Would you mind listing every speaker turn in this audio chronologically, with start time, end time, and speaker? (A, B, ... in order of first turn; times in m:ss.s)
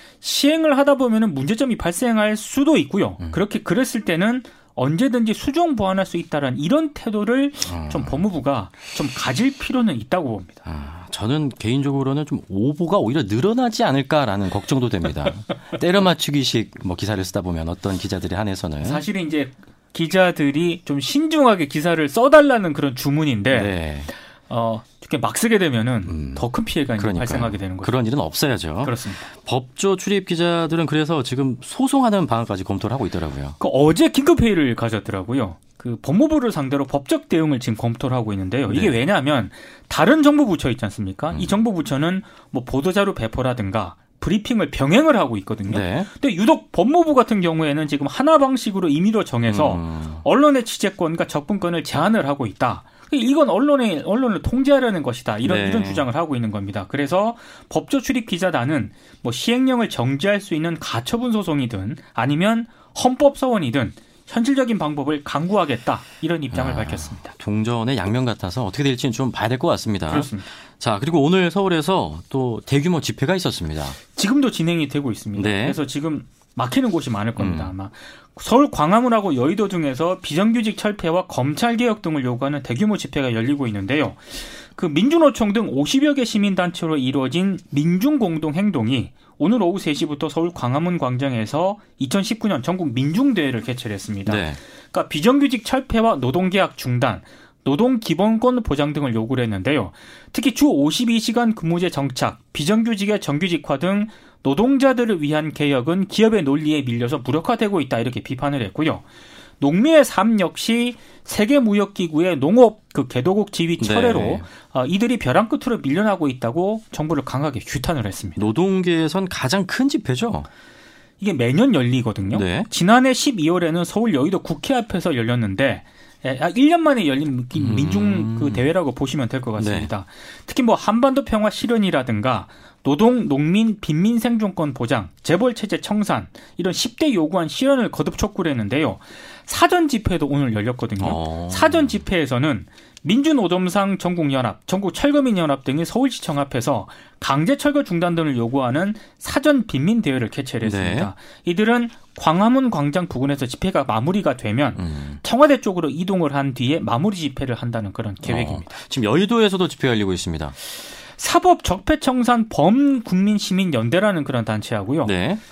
0:00.2-0:10.6 A
0:07.7-0:08.2 B
0:10.6-0:19.0 B
0:18.8-0:23.7 A
0:23.5-0:24.1 B
0:24.5-0:27.9 A
0:26.1-0:26.5 B
0:27.0-0:33.6 B
0:28.8-0:29.3 A
0:33.6-1:07.3 A
0:38.7-0:38.9 B
0:45.7-0:46.1 B
0:49.5-0:50.2 B
0:55.4-0:56.0 B
1:06.5-1:14.0 B
1:10.1-1:10.5 A
1:14.2-1:49.0 A
1:15.4-1:15.8 B
1:17.4-1:17.7 B
1:34.3-1:34.6 B
1:49.6-1:58.4 A
1:53.8-1:54.5 B
1:58.4-2:00.5 B
2:01.2-2:38.7 A
2:02.3-2:02.7 B
2:07.6-2:08.6 B
2:09.6-2:09.9 B
2:21.0-2:22.0 B
2:30.6-2:31.1 B
2:34.8-2:35.2 B
2:38.2-2:40.6 B
2:41.2-2:45.1 A
2:45.0-2:45.4 B